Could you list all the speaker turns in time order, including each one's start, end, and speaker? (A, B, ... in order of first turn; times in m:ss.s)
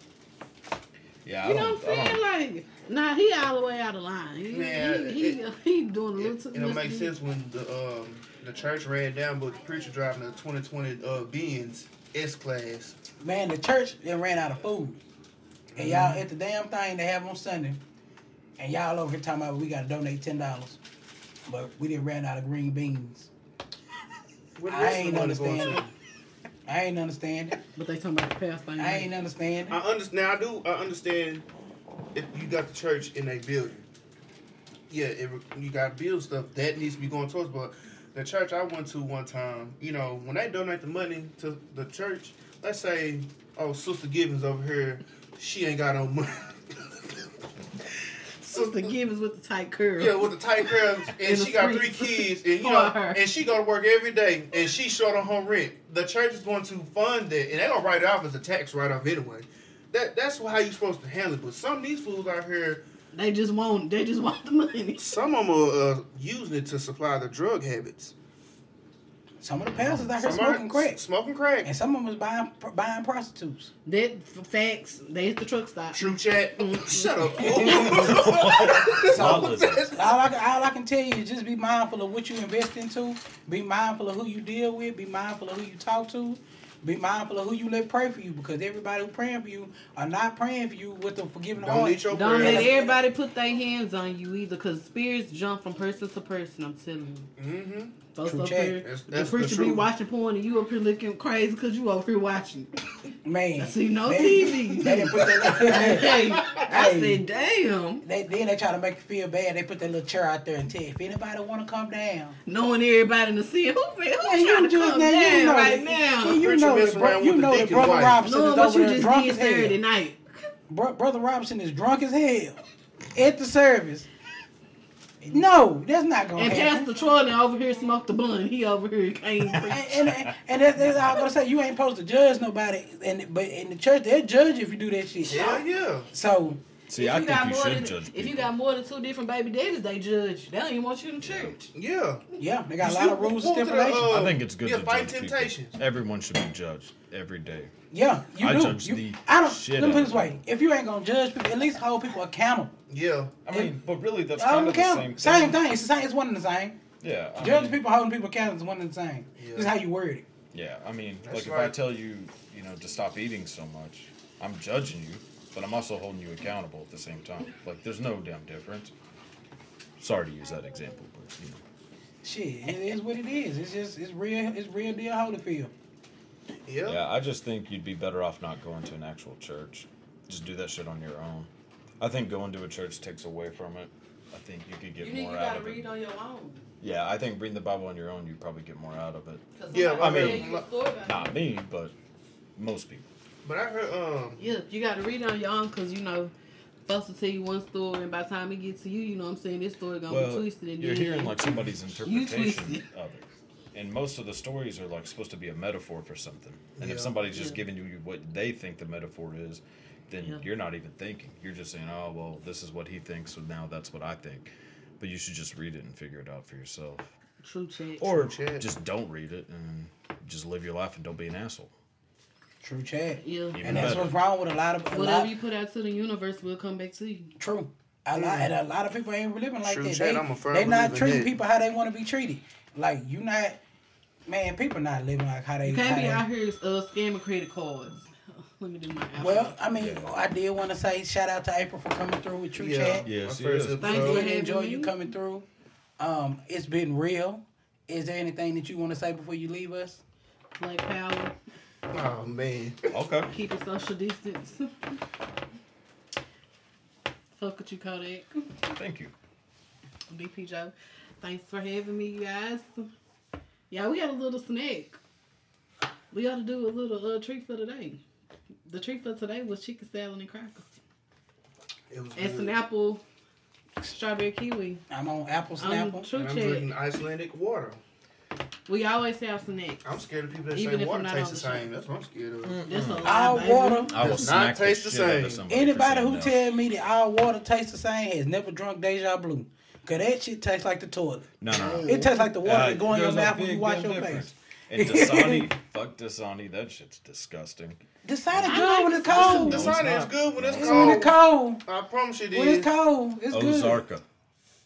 0:01.2-0:02.2 A
0:01.4-0:07.1 B
0:04.5-0:05.4 C
0:06.2-0:13.0 C
0:13.2-0:15.0 D
0:15.7-0:16.2 C
0:15.8-0:17.8 D
0:18.6-0:20.8 D
0:21.5-0:23.3 D
0:24.6-0:25.9 C
0:24.7-0:25.9 D
0:26.7-0:27.6 D
0:27.8-0:29.1 B
0:28.8-0:29.8 D
0:29.7-0:31.5 C
0:32.1-0:33.9 C
0:34.9-0:47.1 C
0:48.4-0:50.3 B
0:48.6-0:48.9 C
0:50.0-1:02.8 C
0:51.1-0:53.2 B
1:03.1-1:05.2 B
1:05.0-1:08.1 C
1:09.4-1:11.0 D
1:09.7-1:10.1 A
1:10.2-1:11.7 C
1:11.6-1:13.7 D
1:13.9-1:17.8 B
1:15.9-1:20.2 C
1:17.6-1:17.8 D
1:17.6-1:19.9 A
1:19.2-1:32.8 D
1:31.6-1:33.0 C
1:32.1-1:37.3 B
1:37.4-1:38.0 C
1:38.1-1:42.8 B
1:38.2-1:38.8 D
1:38.8-1:39.9 C
1:43.2-1:47.2 D
1:43.6-1:48.0 B
1:45.5-1:46.6 C
1:48.0-1:52.4 D
1:52.5-1:56.4 B
1:54.2-1:59.8 D
1:56.3-1:58.2 C
1:58.2-2:00.2 B
2:00.7-2:02.6 D
2:03.1-2:04.1 D
2:05.2-2:06.9 D
2:06.4-2:09.9 B
2:09.5-2:10.3 A
2:09.7-2:16.6 D
2:15.2-2:16.1 C
2:16.9-2:18.5 A
2:16.9-2:21.7 B
2:21.2-2:21.6 A
2:21.7-2:22.2 C
2:22.4-2:24.1 D
2:22.8-2:25.8 C
2:24.0-2:27.7 A
2:27.9-2:32.8 D
2:28.4-2:30.4 A
2:32.9-2:33.4 C
2:33.4-2:35.6 A
2:34.4-2:36.8 D
2:37.0-2:37.8 A
2:37.4-2:40.2 D
2:39.4-2:39.7 C
2:40.5-2:48.9 A
2:41.2-2:41.8 C
2:50.0-2:51.6 A
2:52.2-2:55.7 D
2:56.7-2:57.0 C
2:56.8-3:05.9 A
3:05.0-3:06.7 B
3:06.8-3:09.4 A
3:09.6-3:11.4 B
3:09.7-3:10.7 C
3:10.0-3:10.5 A
3:11.0-3:11.9 A
3:12.6-3:13.0 A
3:13.4-3:14.5 C
3:14.4-3:16.3 B
3:16.9-3:22.8 B
3:20.1-3:37.1 A
3:26.8-3:27.2 C
3:27.3-3:27.6 B
3:37.4-3:38.1 B
3:38.0-3:41.7 A
3:38.1-3:38.7 C
3:42.6-3:45.3 D
3:43.2-3:44.0 B
3:43.5-3:44.2 A
3:44.9-3:47.4 B
3:47.4-3:53.6 D
3:49.6-3:51.4 C
3:54.3-3:56.2 D
3:55.6-3:59.6 B
3:59.2-4:03.1 D
3:59.8-4:00.1 A
4:02.6-4:04.2 C
4:03.0-4:03.9 A
4:03.8-4:05.0 B
4:03.8-4:05.4 D
4:06.0-4:10.0 D
4:10.6-4:11.4 B
4:11.9-4:12.9 C
4:12.9-4:13.3 A
4:13.3-4:14.9 B
4:17.4-4:18.4 B
4:18.7-4:19.1 A
4:20.1-4:22.9 B
4:23.7-4:25.0 B
4:26.1-4:28.0 B
4:28.7-4:30.7 B
4:31.9-4:32.6 C
4:32.2-4:33.0 B
4:33.8-4:34.8 B
4:34.9-4:36.1 D
4:35.6-4:36.7 B
4:36.1-4:37.8 C
4:38.7-4:39.9 B
4:39.8-4:42.7 C
4:40.5-4:41.7 B
4:42.4-4:43.2 A
4:42.7-4:44.2 B
4:43.0-4:43.9 D
4:43.9-4:46.4 A
4:44.0-4:45.4 C
4:45.5-4:51.3 D
4:51.4-4:58.6 A
4:51.5-4:52.2 C
4:51.8-4:55.5 D
4:58.0-4:59.7 D
4:58.4-4:59.6 B
4:59.1-5:02.7 C
4:59.1-5:01.0 A
5:00.6-5:01.6 D
5:02.3-5:03.9 D
5:03.3-5:04.0 A